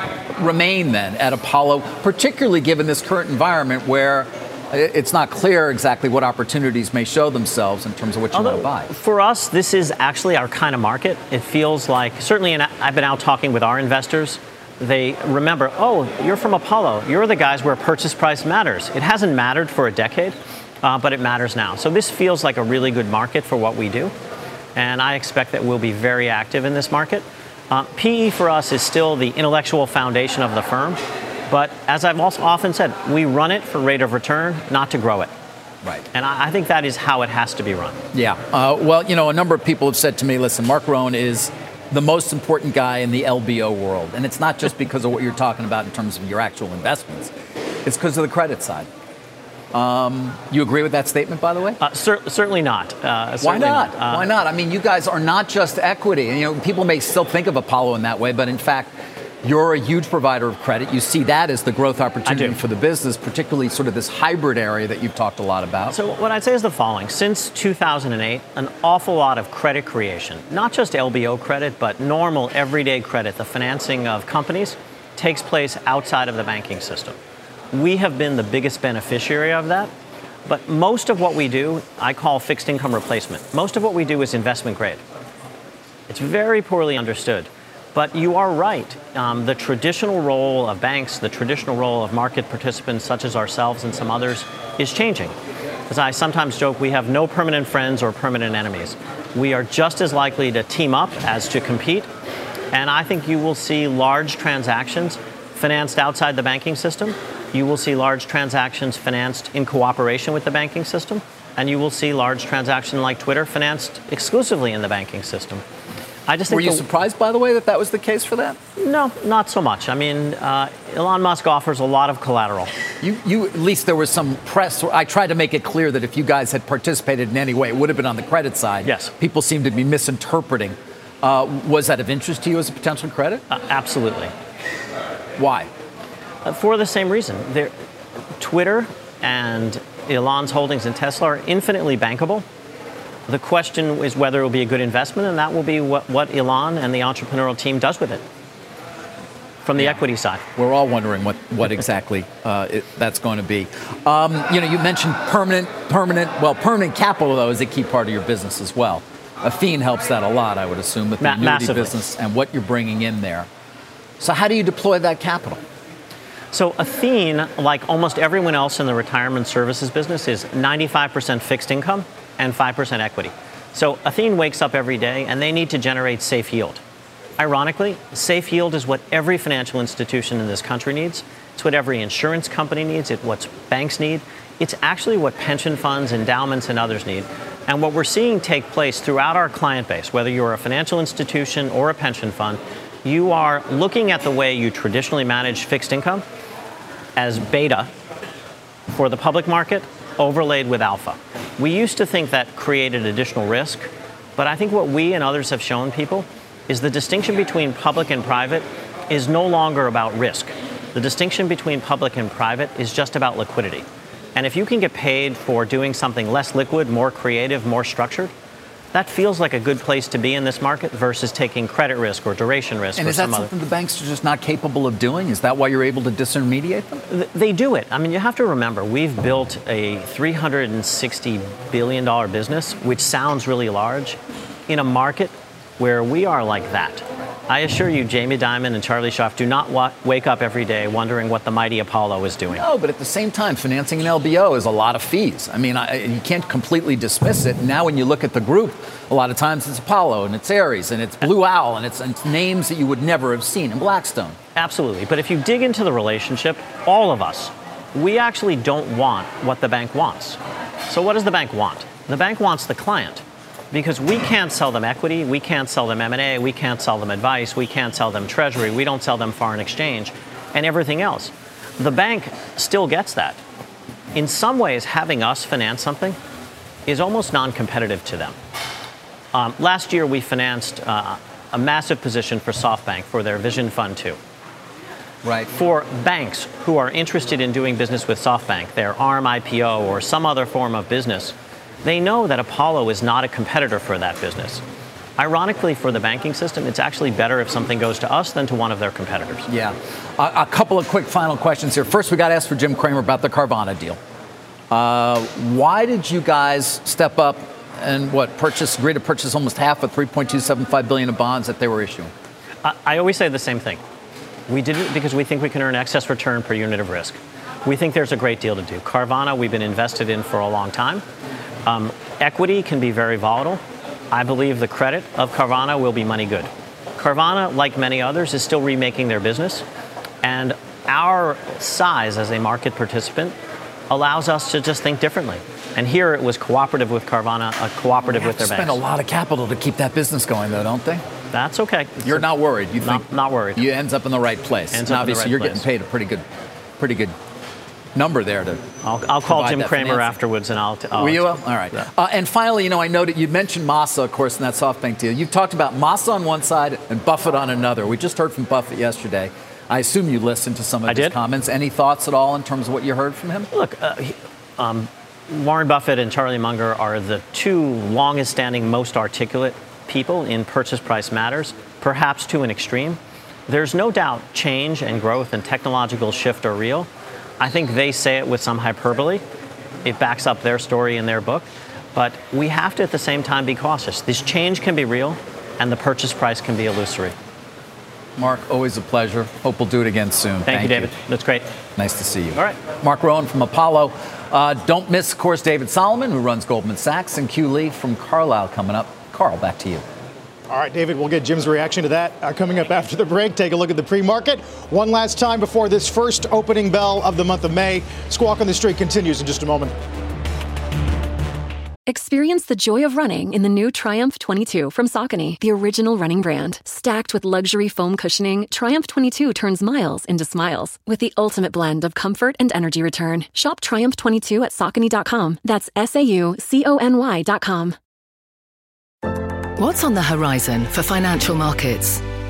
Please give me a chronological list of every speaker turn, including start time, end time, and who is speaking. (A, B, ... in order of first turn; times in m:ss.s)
0:00.4-0:08.9 A
0:08.3-0:24.1 B
0:24.8-0:35.3 B
0:36.1-0:38.0 B
0:38.1-0:47.3 A
0:47.8-0:48.9 A
0:49.7-0:51.8 A
0:51.8-0:54.3 B
0:53.4-1:06.0 A
1:02.3-1:02.6 B
1:05.9-1:17.2 B
1:17.7-1:19.9 B
1:20.5-1:25.0 B
1:26.1-1:35.4 B
1:35.9-1:42.1 B
1:42.7-1:55.6 B
1:56.3-1:56.8 B
1:56.5-1:58.6 A
1:58.8-2:02.7 B
2:03.0-2:13.4 A
2:08.8-2:09.1 B
2:13.5-2:14.3 B
2:15.4-2:15.7 A
2:16.4-2:17.7 B
2:18.4-2:22.4 B
2:23.3-2:28.2 B
2:29.6-2:30.4 B
2:30.6-2:43.5 A
2:41.2-2:42.0 B
2:44.2-2:45.6 A
2:46.5-2:56.8 B
2:57.4-3:16.2 B
3:17.2-3:17.9 B
3:18.9-3:38.3 B
3:38.9-3:43.5 B
3:43.0-3:47.0 A
3:47.1-4:02.6 B
4:02.6-4:14.4 A
4:14.6-4:33.4 B
4:34.1-4:36.2 B
4:36.9-4:38.4 B
4:39.3-4:44.2 B
4:45.2-4:45.5 A
4:45.5-4:54.6 B
4:55.2-4:59.5 B
4:59.5-5:04.0 A
5:04.7-5:12.1 A
5:12.6-5:13.8 B
5:14.5-5:21.0 B
5:21.6-5:29.6 B
5:30.2-5:33.4 B
5:33.9-5:38.8 B
5:38.2-5:41.0 A
5:41.3-5:43.7 B
5:42.0-5:46.2 A
5:44.7-5:45.6 B
5:46.8-5:47.2 A
5:48.0-5:48.6 A
5:48.8-5:51.8 B
5:49.2-5:50.2 A
5:51.0-6:03.5 A
6:00.9-6:01.2 B
6:03.5-6:16.9 B
6:17.4-6:19.2 B
6:19.8-6:27.2 B
6:28.2-6:30.9 A
6:30.5-6:31.5 B
6:31.8-6:39.8 A
6:32.3-6:32.6 B
6:40.5-6:49.7 C
6:51.9-7:07.8 D
7:09.6-7:12.0 E